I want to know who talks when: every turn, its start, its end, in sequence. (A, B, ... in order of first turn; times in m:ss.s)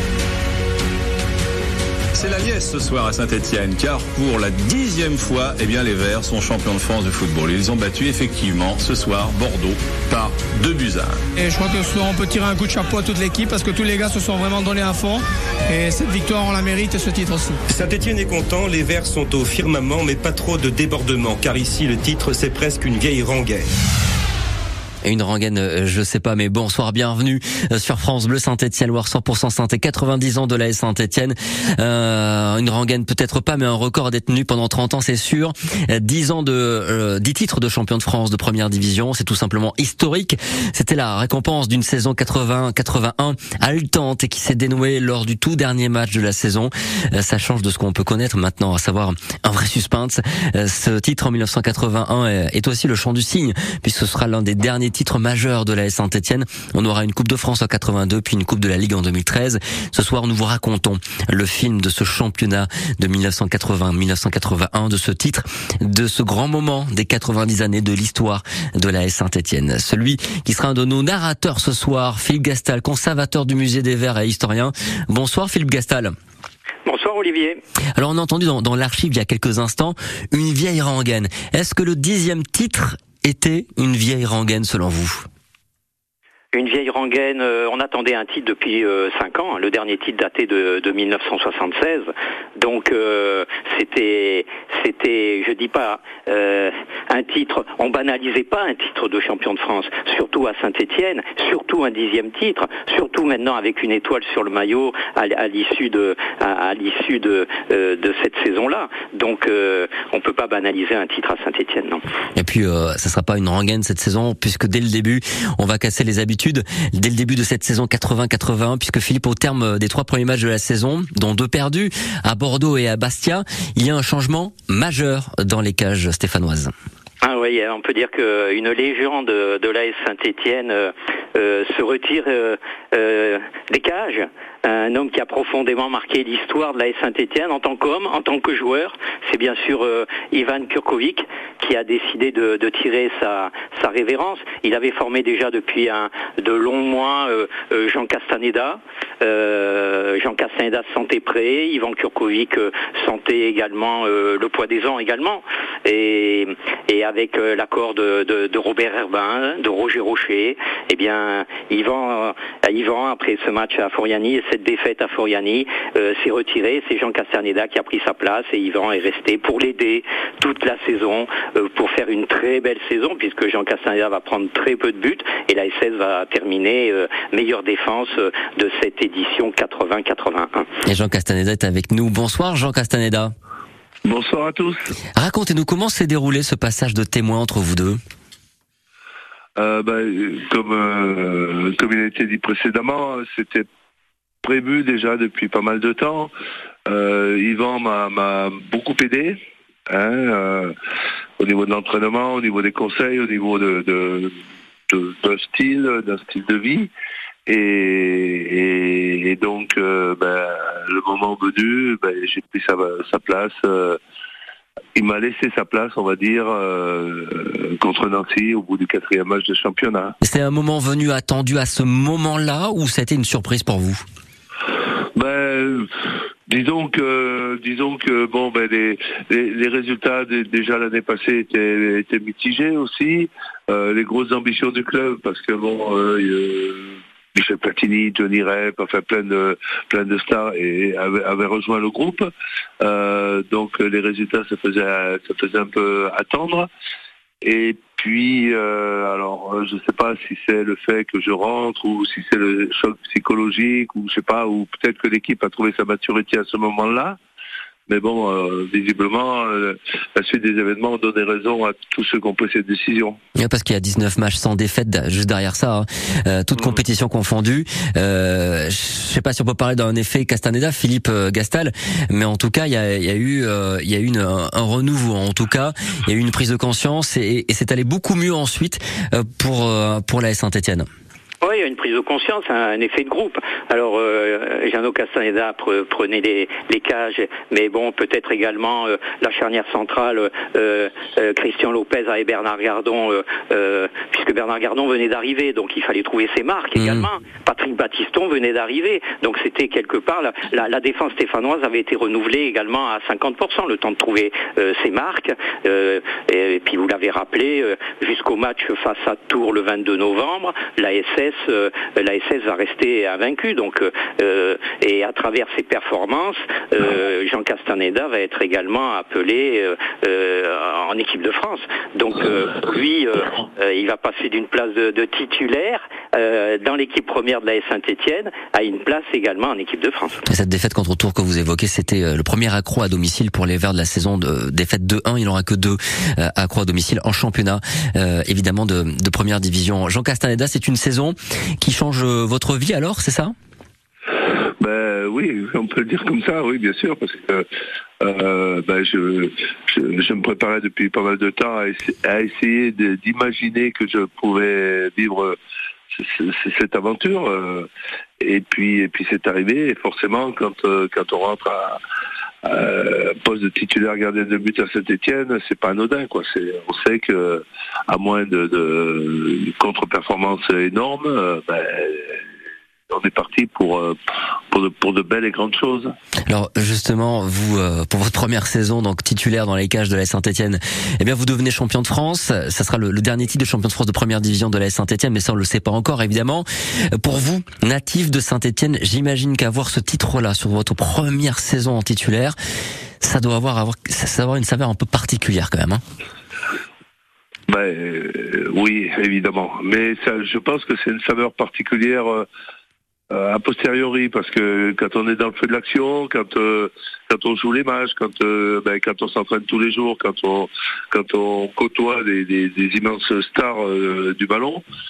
0:02.1-0:11.2 A
0:11.4-0:17.6 B
0:17.7-0:23.7 C
0:25.0-1:16.1 D
1:16.9-1:17.6 E
1:17.9-1:25.3 D
1:26.5-1:52.0 E
1:52.4-2:06.7 D
2:07.2-3:00.7 E
3:00.8-3:03.3 D
3:04.0-3:04.9 F
3:05.2-3:08.0 D
3:09.6-3:13.7 F
3:14.4-3:16.3 F
3:16.9-3:19.4 F
3:19.9-3:20.7 F
3:21.4-3:24.3 F
3:24.9-3:26.9 F
3:27.5-3:34.0 F
3:34.9-3:40.2 F
3:40.2-3:44.0 D
3:45.2-3:45.9 F
3:46.5-4:06.7 F
4:07.4-4:17.2 F
4:17.9-4:23.2 F
4:23.4-4:40.9 D
4:41.4-5:30.3 E
4:56.8-4:57.1 D
5:30.3-5:43.4 D
5:44.6-5:47.5 F
5:48.0-5:55.4 F
5:55.9-5:57.7 F
5:58.2-6:01.8 F
6:02.4-6:12.2 F
6:12.9-6:14.0 F
6:14.5-6:15.9 F
6:16.3-6:32.4 D
6:33.0-6:35.8 D
6:37.5-6:42.3 F
6:43.1-6:54.6 F